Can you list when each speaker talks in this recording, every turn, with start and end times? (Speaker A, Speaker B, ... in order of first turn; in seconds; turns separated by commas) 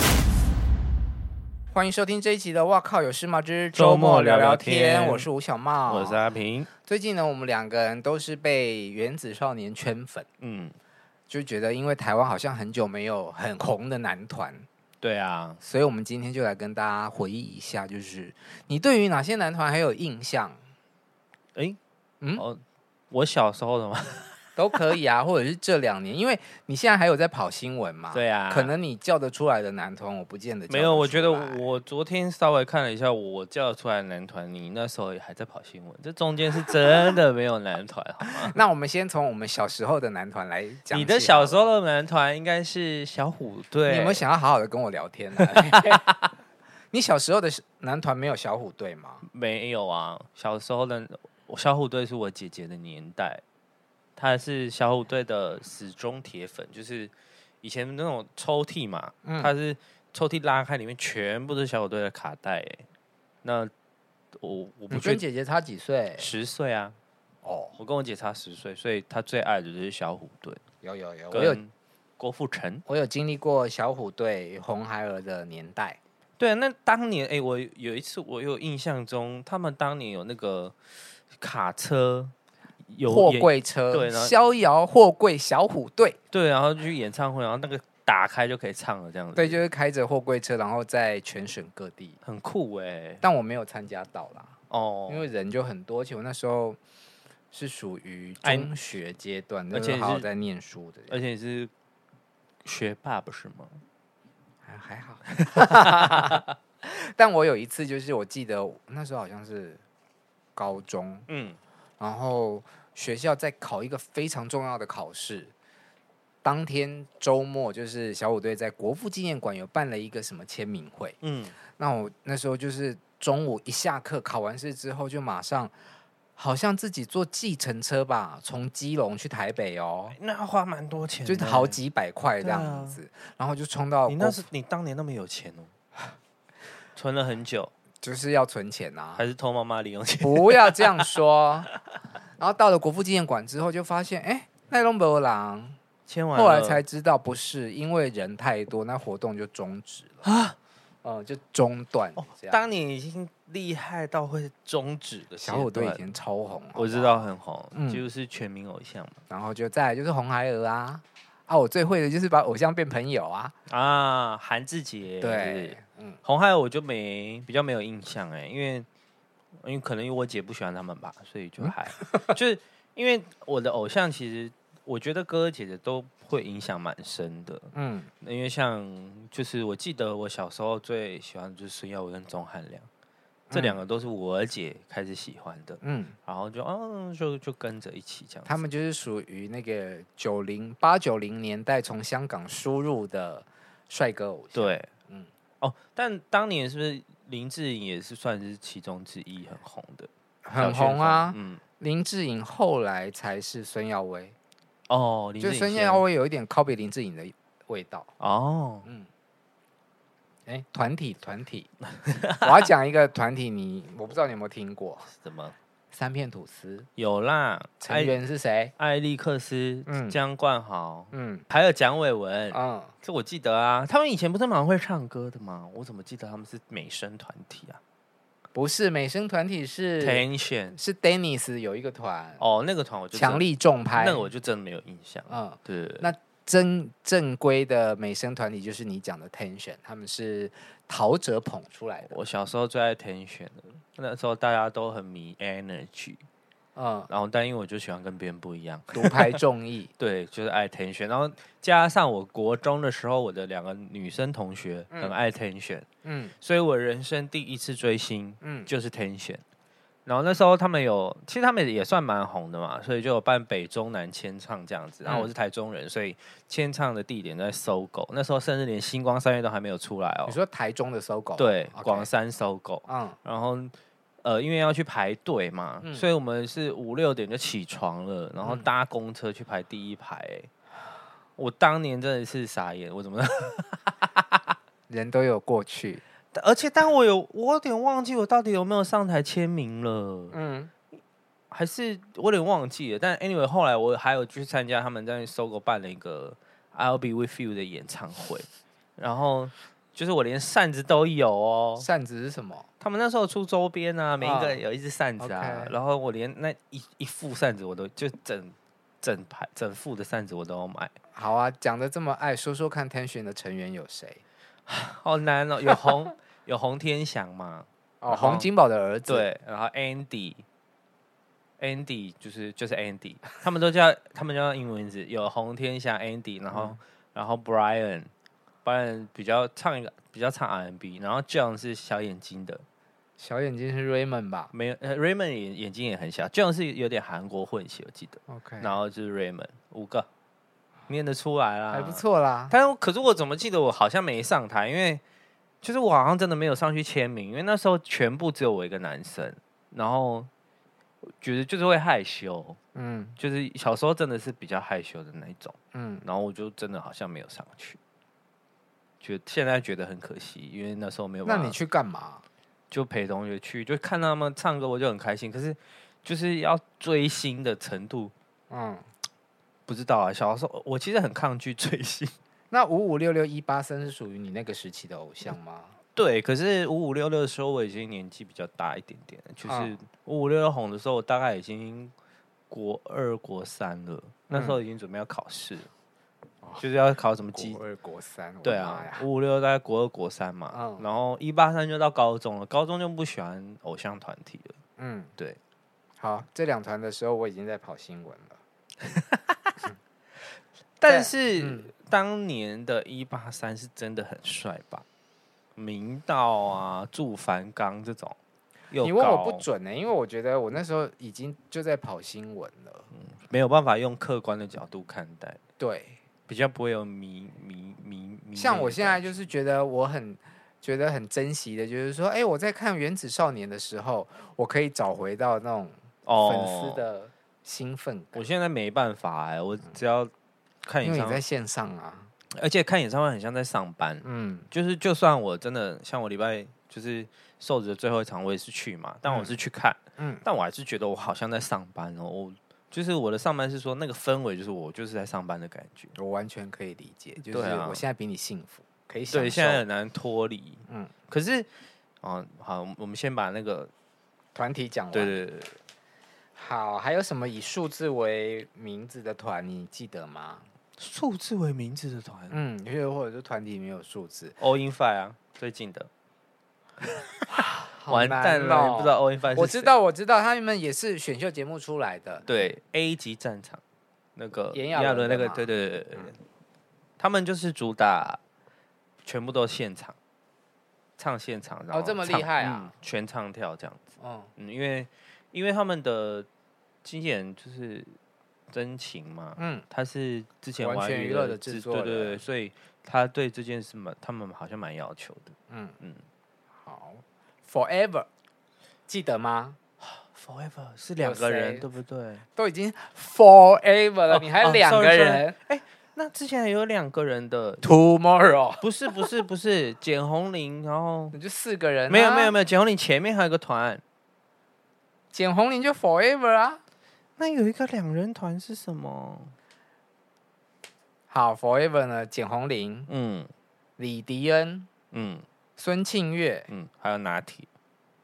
Speaker A: 1.7-6.2, Speaker B: 3.7-5.3, Speaker B: 5.8-6.7, Speaker A: 6.8-10.3, Speaker B: 10.4-10.7, Speaker A: 11.3-14.7, Speaker B: 15.0-15.6, Speaker A: 15.6-20.6, Speaker A: 22.2-22.4, Speaker B: 22.3-22.6, Speaker B: 23.1-24.4, Speaker A: 24.6-31.6, Speaker B: 28.1-28.7, Speaker B: 30.7-38.6, Speaker A: 38.2-41.6, Speaker B: 40.9-44.2, Speaker A: 43.9-46.1, Speaker B: 45.4-46.1, Speaker A: 46.9-49.2, Speaker B: 49.2-53.4, Speaker B: 54.1-62.8, Speaker A: 59.2-59.5, Speaker B: 63.4-63.7, Speaker B: 64.3-65.2, Speaker A: 64.9-66.3, Speaker B: 66.2-67.0, Speaker A: 67.4-67.8, Speaker B: 67.8-70.6, Speaker A: 70.8-71.6, Speaker B: 71.3-72.8, Speaker A: 72.9-76.0, Speaker B: 76.4-80.8, Speaker B: 81.3-82.3, Speaker B: 82.9-84.3, Speaker A: 83.0-86.2, Speaker B: 86.3-89.6, Speaker A: 89.3-92.2, Speaker B: 92.2-93.2, Speaker A: 93.2-94.5, Speaker B: 94.7-95.3, Speaker A: 95.1-96.8, Speaker A: 97.5-101.2, Speaker B: 98.4-98.7, Speaker B: 99.7-100.3, Speaker B: 101.1-101.7, Speaker B: 102.6-103.8, Speaker A: 104.6-109.8, Speaker B: 105.4-106.4, Speaker A: 110.5-111.3, Speaker B: 111.3-111.6, Speaker A: 112.0-115.5, Speaker A: 116.4-121.2, Speaker B: 121.2-121.5, Speaker A: 121.7-125.7, Speaker A: 126.4-130.2, Speaker B: 130.1-131.8, Speaker A: 131.2-134.4, Speaker B: 132.4-133.0, Speaker B: 134.1-135.7, Speaker B: 136.9-137.7, Speaker A: 138.0-139.3, Speaker B: 139.2-141.1, Speaker A: 140.2-141.7, Speaker A: 142.4-145.8, Speaker B: 146.1-146.8, Speaker A: 146.3-150.3, Speaker B: 150.2-150.6, Speaker A: 151.0-152.7, Speaker B: 152.2-156.1, Speaker A: 155.4-158.0, Speaker B: 156.7-159.2, Speaker A: 159.3-163.5, Speaker B: 163.7-168.9, Speaker A: 165.2-166.2, Speaker B: 169.6-182.9, Speaker A: 171.6-172.3, Speaker A: 177.7-178.1, Speaker A: 183.5-183.8, Speaker B: 183.5-188.6, Speaker A: 185.8-186.2, Speaker A: 188.4-195.3, Speaker B: 194.5-194.9, Speaker B: 195.6-201.6, Speaker A: 200.4-204.3, Speaker B: 204.9-206.0, Speaker A: 205.4-208.1, Speaker B: 208.2-208.9, Speaker A: 210.4-211.7, Speaker B: 212.0-212.6, Speaker A: 212.4-215.1, Speaker B: 215.1-215.5, Speaker A: 215.9-216.9, Speaker B: 216.9-218.2, Speaker A: 217.8-218.7, Speaker B: 218.8-227.8, Speaker A: 219.9-220.2, Speaker A: 221.1-221.4, Speaker A: 222.5-222.9, Speaker A: 228.5-232.4, Speaker B: 230.0-230.8, Speaker B: 232.4-236.1, Speaker A: 233.1-234.3, Speaker A: 235.3-242.1, Speaker B: 242.0-246.2, Speaker A: 246.7-247.1, Speaker B: 247.1-249.4, Speaker A: 248.9-249.9, Speaker B: 250.0-255.8, Speaker A: 256.0-256.4, Speaker B: 256.4-259.4, Speaker A: 258.4-258.7, Speaker B: 260.1-270.4, Speaker A: 265.0-265.3, Speaker A: 270.2-272.1, Speaker B: 271.4-280.5, Speaker A: 272.9-273.2, Speaker A: 275.8-276.1, Speaker A: 278.4-278.7, Speaker B: 281.4-284.3, Speaker A: 284.9-286.0, Speaker B: 286.3-290.4, Speaker A: 290.3-290.7, Speaker B: 291.5-301.9, Speaker A: 301.8-302.7, Speaker B: 302.8-310.9, Speaker A: 304.2-304.6, Speaker A: 305.2-305.7, Speaker A: 311.1-314.2, Speaker B: 314.7-318.5, Speaker A: 318.0-319.3, Speaker B: 319.1-320.4, Speaker B: 321.6-328.1, Speaker A: 326.5-326.8, Speaker B: 328.6-332.6, Speaker A: 333.2-334.5, Speaker B: 334.5-340.1, Speaker A: 338.3-338.8, Speaker B: 340.9-345.0, Speaker A: 341.7-342.5, Speaker B: 345.6-350.3, Speaker B: 351.1-352.6, Speaker A: 352.7-353.2, Speaker B: 353.2-357.8, Speaker A: 355.7-356.0, Speaker B: 359.0-361.6, Speaker A: 361.2-362.2, Speaker B: 362.7-368.1, Speaker A: 368.5-368.9, Speaker B: 369.7-372.1, Speaker A: 372.5-375.8, Speaker B: 375.9-381.9, Speaker A: 379.4-379.8, Speaker B: 382.5-385.7, Speaker A: 384.3-384.6, Speaker B: 386.6-387.6, Speaker A: 387.3-389.1, Speaker B: 388.4-394.6, Speaker A: 390.5-390.9, Speaker A: 394.8-395.1, Speaker A: 396.0-398.4, Speaker B: 398.9-399.4, Speaker B: 400.8-404.8, Speaker A: 400.9-401.7, Speaker B: 405.6-408.2, Speaker B: 408.7-409.4, Speaker A: 408.8-412.9, Speaker B: 412.9-415.4, Speaker A: 415.6-416.0, Speaker B: 416.3-419.1, Speaker A: 418.3-428.3, Speaker B: 426.0-426.9, Speaker B: 428.1-430.1, Speaker B: 430.6-431.2, Speaker A: 430.8-432.1, Speaker B: 432.3-445.9, Speaker A: 434.0-434.5, Speaker A: 439.1-439.3, Speaker A: 440.0-440.2, Speaker A: 445.9-449.6, Speaker B: 447.2-447.8, Speaker B: 449.1-451.5, Speaker A: 450.7-450.9, Speaker B: 452.0-453.7, Speaker A: 454.3-455.2, Speaker B: 454.9-455.6, Speaker A: 456.3-460.5, Speaker B: 460.8-462.4, Speaker A: 462.3-464.4, Speaker B: 464.4-465.9, Speaker B: 467.1-469.7, Speaker A: 467.4-472.2, Speaker B: 472.2-473.6, Speaker B: 474.1-476.2, Speaker A: 474.5-476.1, Speaker B: 477.0-478.2, Speaker B: 479.0-479.9, Speaker B: 481.0-486.3, Speaker A: 481.7-482.7, Speaker A: 484.0-484.3, Speaker B: 486.8-487.9, Speaker B: 488.5-496.0, Speaker A: 489.4-489.6, Speaker A: 490.6-492.2, Speaker A: 495.5-495.8, Speaker A: 496.6-498.1, Speaker A: 498.9-499.6, Speaker B: 499.8-502.2, Speaker A: 501.0-501.6, Speaker A: 502.3-505.4, Speaker B: 504.1-507.7, Speaker A: 507.6-508.7, Speaker B: 508.6-511.1, Speaker A: 511.1-512.4, Speaker B: 511.9-513.8, Speaker A: 515.1-516.6, Speaker B: 517.2-519.3, Speaker A: 521.1-522.9, Speaker B: 522.9-523.3, Speaker A: 523.8-524.7, Speaker B: 524.9-525.2, Speaker A: 525.6-526.5, Speaker B: 526.5-527.5